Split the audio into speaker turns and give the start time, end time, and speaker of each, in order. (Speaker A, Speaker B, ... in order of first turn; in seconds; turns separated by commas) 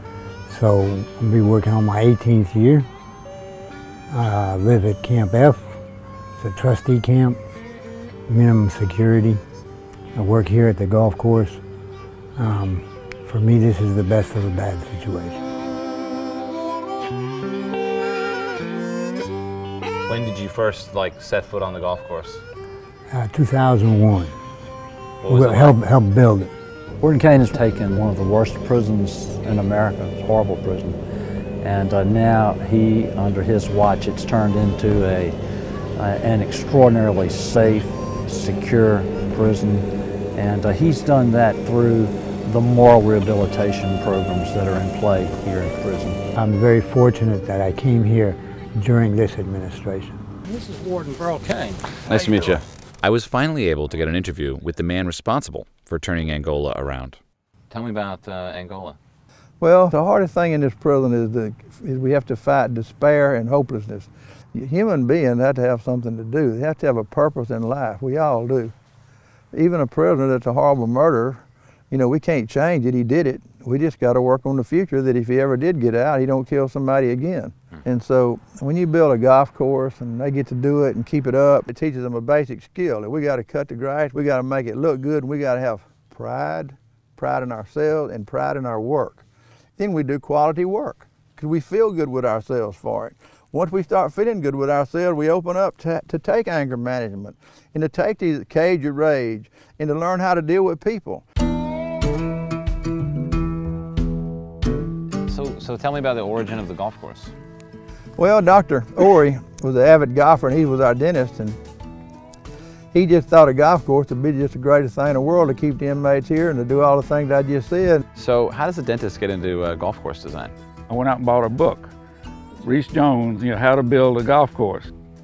Speaker A: 0.5-2.9, Speaker A: 4.1-5.8, Speaker A: 6.4-7.4, Speaker A: 8.3-9.4, Speaker A: 10.1-11.6, Speaker A: 12.3-15.4, Speaker B: 20.1-22.4, Speaker A: 23.1-24.3, Speaker B: 25.2-25.8, Speaker A: 25.2-26.5, Speaker C: 27.0-31.0, Speaker C: 31.6-35.4, Speaker C: 35.9-46.2, Speaker A: 46.4-50.2, Speaker C: 50.5-51.7, Speaker B: 52.0-57.2, Speaker B: 57.7-59.0, Speaker D: 59.6-68.7, Speaker D: 69.5-89.2, Speaker D: 89.8-101.2, Speaker B: 105.2-107.3, Speaker D: 108.2-111.6, Speaker D: 112.9-118.0, Speaker B: 118.1-120.5, Speaker E: 120.9-121.9, Speaker E: 122.6-124.9